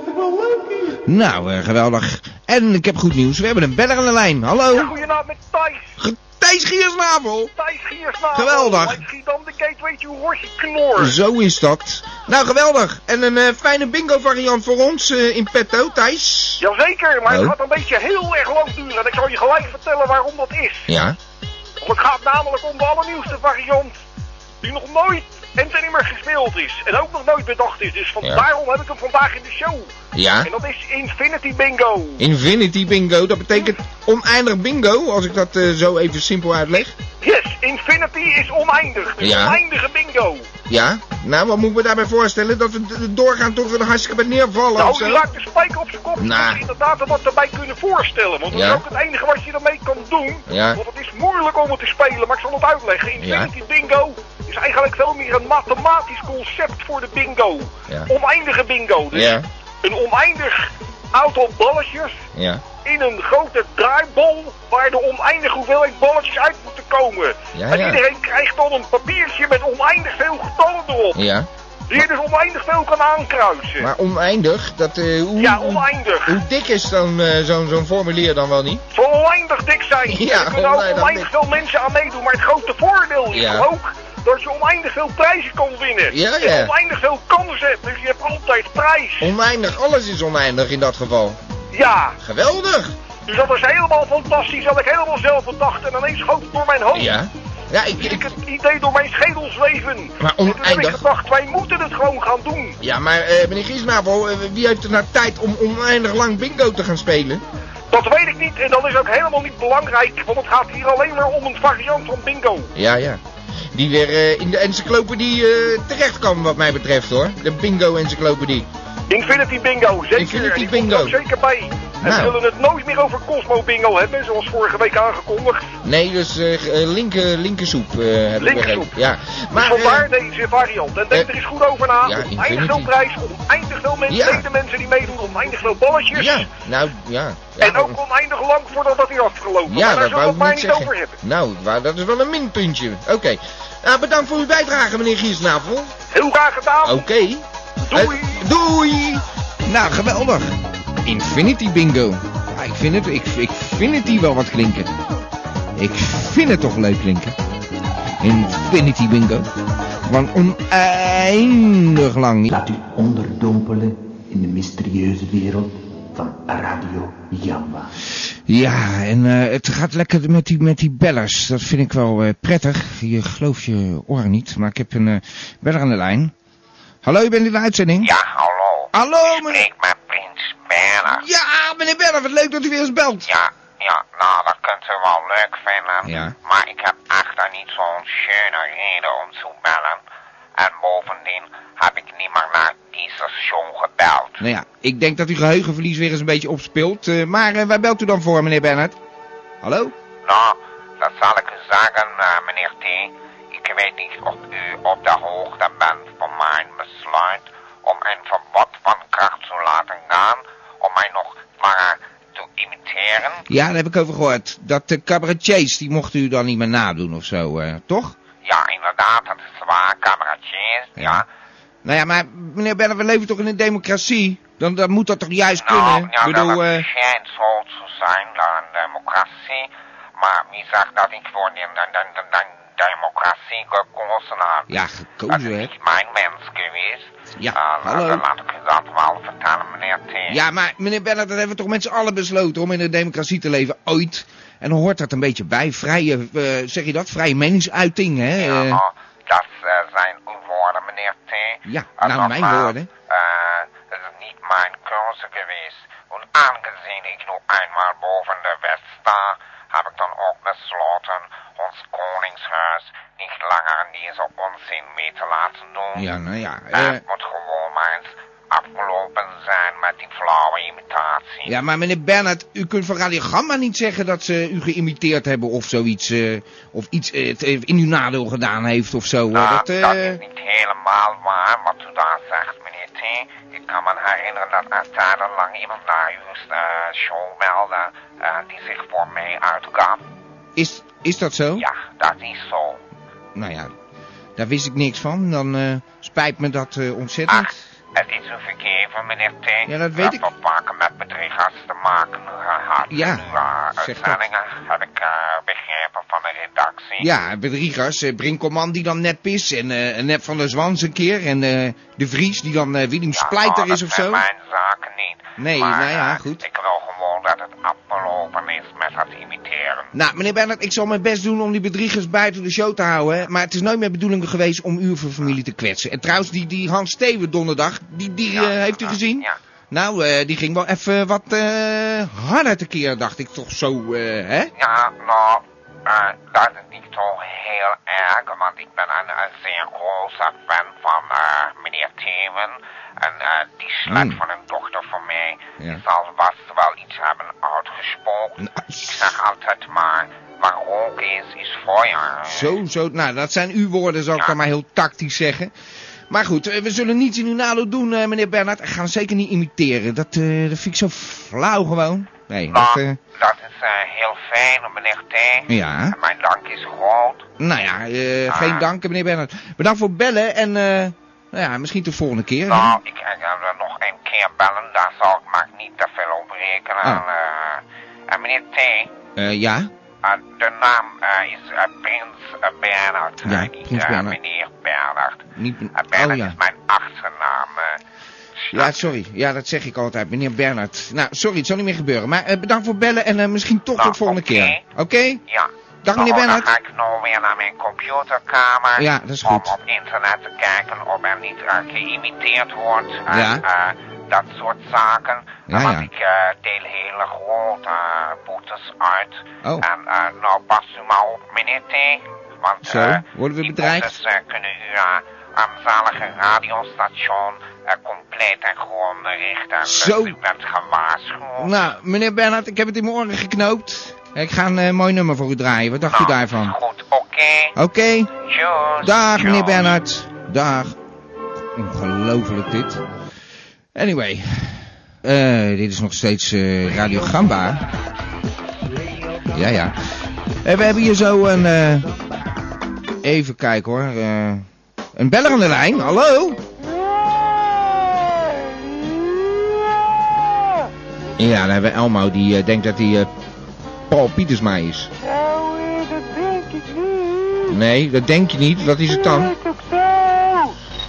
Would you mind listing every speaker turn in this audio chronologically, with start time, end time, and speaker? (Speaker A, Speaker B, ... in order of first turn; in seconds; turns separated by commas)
Speaker A: 0.9-5.0, Speaker B: 4.7-5.9, Speaker A: 6.0-7.5, Speaker B: 7.6-11.2, Speaker A: 8.3-9.0, Speaker A: 11.0-16.6, Speaker B: 16.6-20.9, Speaker A: 17.3-17.6, Speaker A: 20.9-21.2, Speaker B: 21.8-24.0, Speaker B: 24.6-29.9, Speaker A: 30.1-30.5, Speaker B: 30.4-32.2, Speaker A: 32.2-37.0, Speaker B: 37.2-40.5, Speaker A: 39.2-39.6, Speaker A: 40.7-45.2, Speaker B: 44.8-62.2, Speaker A: 46.2-46.6, Speaker A: 48.5-48.8, Speaker A: 50.5-50.8, Speaker A: 53.2-53.5, Speaker A: 59.1-59.5, Speaker A: 62.4-62.6, Speaker B: 62.8-71.2, Speaker A: 67.5-68.0, Speaker A: 71.2-72.0, Speaker B: 71.9-73.9, Speaker A: 73.8-78.8, Speaker B: 75.4-76.4, Speaker B: 78.9-89.3, Speaker A: 80.1-81.3, Speaker A: 83.3-83.7, Speaker A: 86.1-86.7, Speaker A: 89.2-91.4, Speaker B: 91.7-92.2, Speaker A: 92.2-92.9, Speaker B: 93.3-97.1, Speaker A: 96.9-98.3, Speaker B: 98.0-102.8, Speaker A: 100.2-101.0, Speaker A: 102.8-107.4, Speaker B: 107.9-112.7, Speaker A: 112.8-113.2, Speaker A: 113.7-118.7, Speaker B: 119.1-125.7, Speaker A: 120.1-121.2, Speaker A: 122.0-122.4, Speaker A: 125.8-130.1, Speaker B: 128.4-128.9, Speaker B: 129.6-136.5, Speaker A: 132.0-132.9, Speaker A: 134.1-134.5, Speaker A: 136.1-138.0, Speaker B: 137.6-141.2, Speaker A: 139.7-145.9, Speaker B: 146.1-147.0, Speaker A: 146.8-154.9, Speaker B: 147.8-148.3, Speaker A: 155.8-157.3, Speaker A: 158.2-159.5, Speaker A: 160.1-162.5, Speaker C: 162.5-167.9, Speaker A: 168.5-176.3, Speaker A: 177.0-178.1, Speaker D: 178.0-181.2, Speaker A: 178.9-179.7, Speaker A: 181.1-183.3, Speaker D: 183.3-190.0, Speaker A: 186.0-186.3, Speaker D: 190.6-194.4, Speaker A: 194.4-199.0, Speaker A: 199.6-199.9, Speaker D: 200.2-213.4, Speaker A: 213.5-218.2, Speaker D: 218.4-221.3, Speaker A: 221.0-221.2, Speaker A: 221.8-226.9, Speaker D: 225.6-234.8, Speaker A: 234.7-235.7, Speaker D: 235.3-240.4, Speaker A: 237.4-238.2, Speaker A: 240.3-248.8, Speaker D: 248.4-266.1, Speaker A: 251.7-252.9, Speaker A: 266.0-267.0, Speaker D: 266.7-271.5, Speaker A: 271.5-280.2, Speaker D: 279.3-290.0, Speaker A: 290.6-291.7, Speaker D: 291.6-292.8, Speaker A: 293.4-293.7, Speaker A: 294.4-297.6, Speaker D: 297.3-307.1, Speaker A: 299.7-300.3, Speaker A: 302.9-304.2, Speaker A: 307.0-314.2, Speaker D: 313.1-319.9, Speaker A: 315.4-316.4, Speaker A: 319.9-334.5, Speaker D: 328.3-329.4, Speaker D: 334.6-352.5, Speaker A: 343.9-344.2, Speaker A: 348.4-349.1, Speaker A: 352.3-355.5, Speaker A: 356.1-363.0, Speaker D: 362.5-367.3, Speaker A: 365.5-366.0, Speaker A: 367.4-372.8, Speaker D: 368.3-368.7, Speaker D: 372.5-378.9, Speaker A: 379.2-379.7, Speaker D: 380.0-387.8, Speaker A: 383.2-384.2, Speaker A: 385.4-386.4, Speaker D: 388.4-388.8, Speaker A: 388.5-395.2, Speaker D: 393.8-394.6, Speaker D: 395.3-421.7, Speaker A: 395.8-396.5, Speaker A: 398.8-399.5, Speaker A: 403.1-403.4, Speaker A: 405.5-405.9, Speaker A: 412.6-414.0, Speaker A: 419.6-420.2, Speaker A: 421.4-426.6, Speaker D: 425.9-427.6, Speaker A: 427.6-428.1, Speaker D: 428.2-429.8, Speaker A: 428.8-430.8, Speaker A: 431.6-432.8, Speaker A: 433.8-437.6, Speaker A: 439.3-439.8, Speaker A: 440.4-441.9, Speaker A: 443.0-446.4, Speaker E: 446.6-450.7, Speaker A: 451.2-453.1, Speaker A: 453.9-454.9, Speaker E: 455.0-457.6, Speaker A: 457.5-459.3, Speaker E: 458.7-460.6